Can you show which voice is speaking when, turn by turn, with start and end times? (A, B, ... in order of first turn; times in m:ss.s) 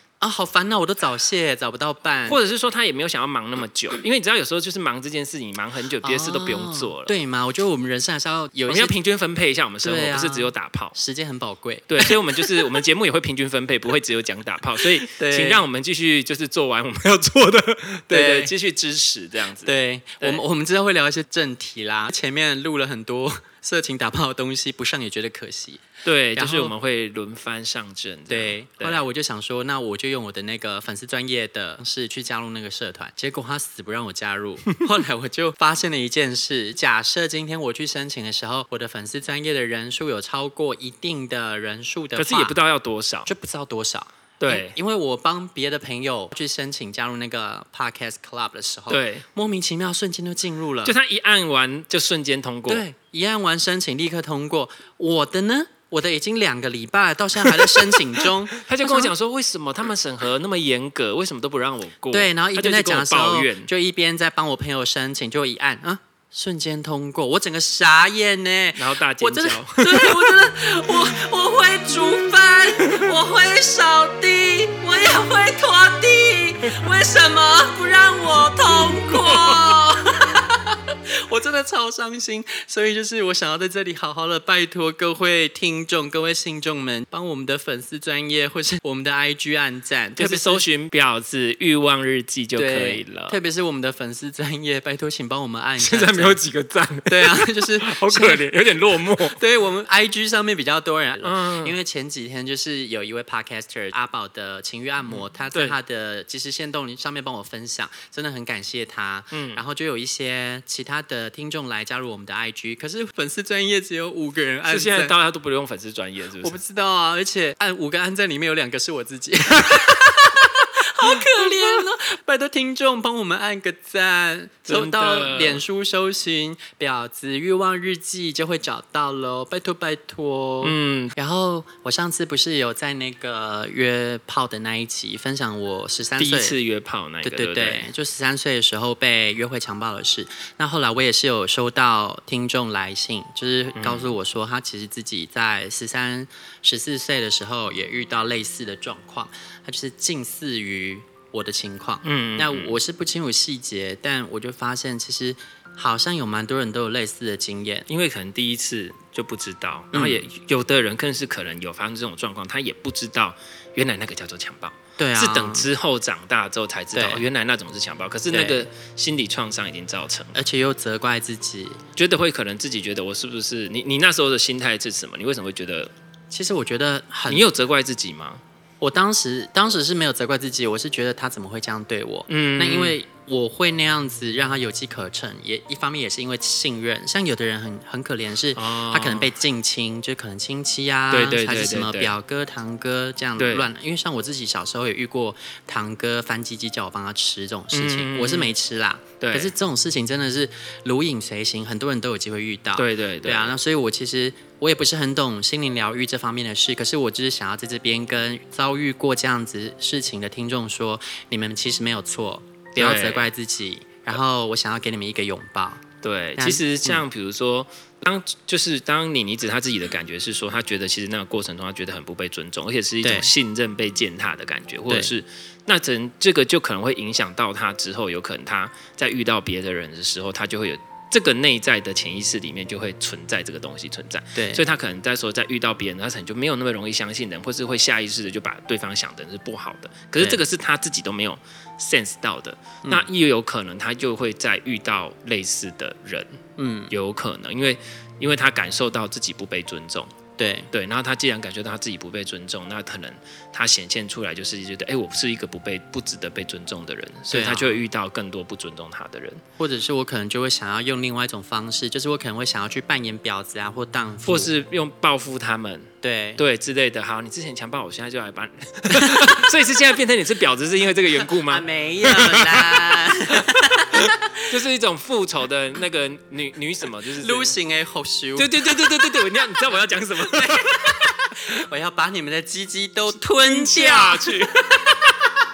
0:00.2-0:02.4 A
0:02.2-0:07.1 B
0:06.0-0:08.9 A
0:08.7-0:11.0 B
0:09.8-0:12.4 A
0:11.9-0:20.4 B
0:15.0-0:15.6 A
0:18.1-0:18.5 A
0:19.6-0:25.8 A
0:26.0-0:29.0 B
0:26.4-0:26.7 A
0:28.3-0:42.5 A
0:42.2-0:43.3 B
0:43.2-0:50.9 A
0:44.4-0:44.8 B
0:48.9-0:49.2 B
0:50.8-0:52.8 B
0:52.7-0:59.1 A
0:57.5-1:03.7 B
1:02.1-1:30.6 A
1:08.8-1:10.4 B
1:19.1-1:19.8 B
1:30.2-1:33.4 B
1:32.5-1:36.4 A
1:35.8-1:39.4 B
1:37.1-1:38.4 A
1:39.1-1:55.1 A
1:41.2-1:41.8 B
1:45.1-1:45.8 B
1:49.3-1:49.6 B
1:54.6-1:56.6 B
1:56.4-2:16.5 A
2:04.7-2:05.6 B
2:10.6-2:11.1 B
2:16.2-2:17.9 B
2:17.2-2:37.9 A
2:23.7-2:24.1 B
2:32.0-2:32.8 B
2:37.9-2:50.4 B
2:39.9-2:40.2 A
2:45.0-2:45.7 A
2:46.9-2:47.2 A
2:48.3-2:48.6 A
2:50.3-2:51.8 A
2:52.0-2:55.9 B
2:56.3-2:57.4 A
2:57.3-2:58.4 B
2:58.8-3:35.8 A
3:02.3-3:03.0 B
3:08.5-3:09.3 B
3:11.1-3:12.2 B
3:13.4-3:13.7 B
3:17.7-3:18.5 B
3:19.2-3:19.5 B
3:22.8-3:23.5 B
3:32.8-3:33.3 B
3:36.0-4:10.1 B
3:36.4-3:37.0 A
3:43.0-3:43.3 A
3:54.3-3:54.6 A
4:06.6-4:06.9 A
4:10.4-4:10.7 A
4:10.7-4:19.4 B
4:17.3-4:17.8 A
4:19.6-4:24.5 A
4:24.2-4:33.1 B
4:26.0-4:26.4 A
4:31.4-4:34.2 A
4:33.9-4:37.5 B
4:37.2-4:38.5 A
4:38.4-4:40.9 B
4:39.7-4:45.1 A
4:43.2-4:44.5 B